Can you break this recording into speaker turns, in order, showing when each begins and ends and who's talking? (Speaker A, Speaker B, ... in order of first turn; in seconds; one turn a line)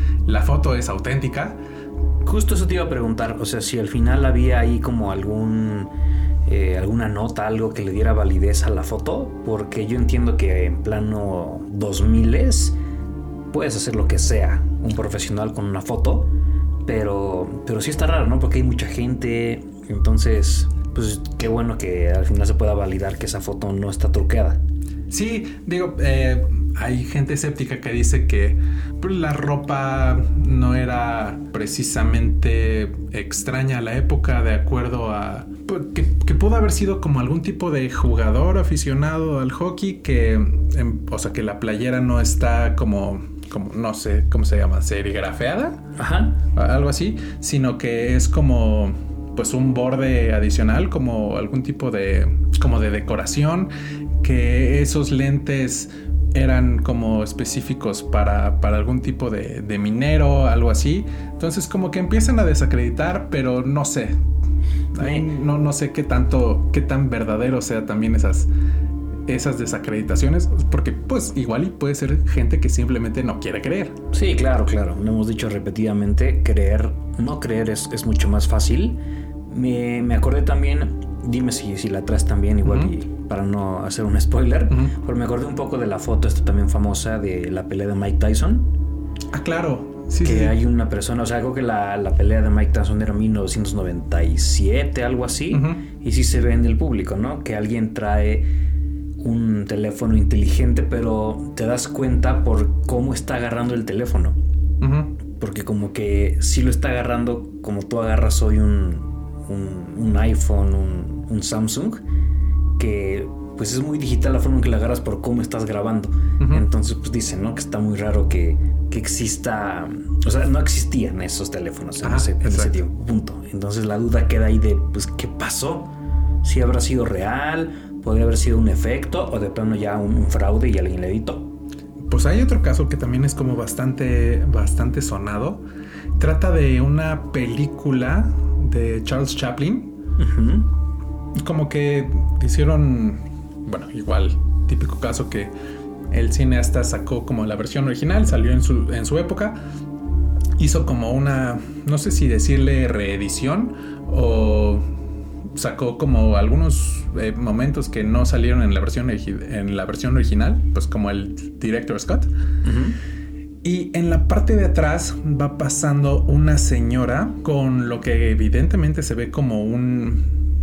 Speaker A: 0.2-1.6
Speaker B: 2.2-5.9
Speaker B: 6.5-12.8
Speaker B: 13.5-16.3
Speaker B: 16.9-24.6
Speaker A: 25.1-45.9
Speaker B: 46.0-46.4
Speaker A: 46.5-53.7
Speaker A: 54.2-64.2
Speaker A: 64.9-68.5
Speaker B: 65.0-65.3
Speaker A: 69.3-74.0
Speaker B: 74.1-88.7
Speaker A: 82.6-82.9
Speaker A: 89.3-90.6
Speaker B: 90.2-98.5
Speaker A: 95.5-95.8
Speaker B: 99.2-104.4
Speaker A: 104.8-105.1
Speaker B: 105.4-112.0
Speaker B: 112.8-125.9
Speaker A: 116.4-116.7
Speaker A: 122.0-122.8
Speaker B: 126.4-131.5
Speaker A: 132.1-135.6
Speaker A: 136.2-139.9
Speaker B: 140.2-140.7
Speaker A: 141.3-145.5
Speaker A: 146.1-149.6
Speaker A: 150.6-154.8
Speaker A: 155.5-162.3
Speaker B: 162.6-163.0
Speaker A: 163.6-170.3